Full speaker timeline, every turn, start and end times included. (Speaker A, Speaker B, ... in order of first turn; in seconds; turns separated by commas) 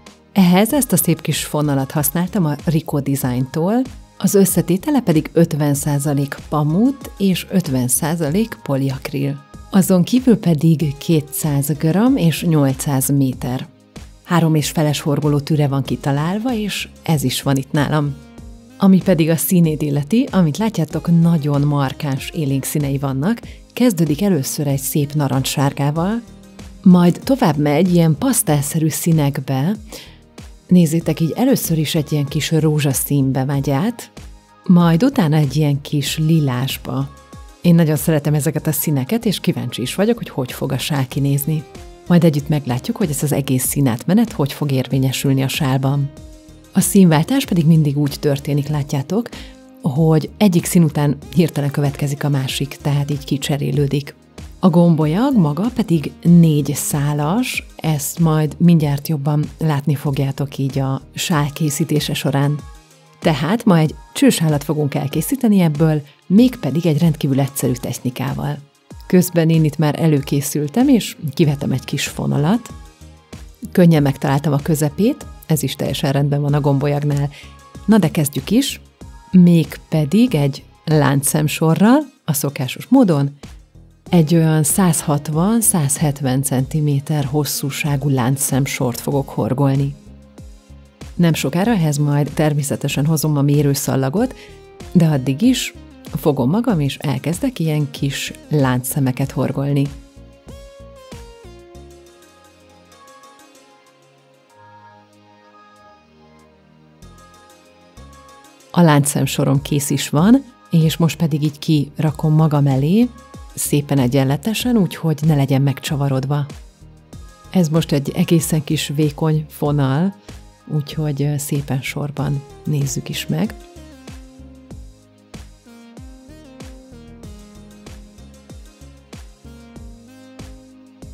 Speaker A: 0.3-13.7, Speaker A: 14.3-18.2, Speaker A: 18.8-26.2, Speaker A: 26.8-29.8, Speaker A: 30.7-34.1, Speaker A: 34.7-46.1, Speaker A: 46.7-62.7, Speaker A: 63.2-72.7, Speaker A: 73.7-77.3, Speaker A: 77.9-83.4, Speaker A: 84.1-90.0, Speaker A: 91.2-94.4, Speaker A: 94.9-100.0, Speaker A: 108.7-116.5, Speaker A: 117.5-120.2, Speaker A: 120.7-123.6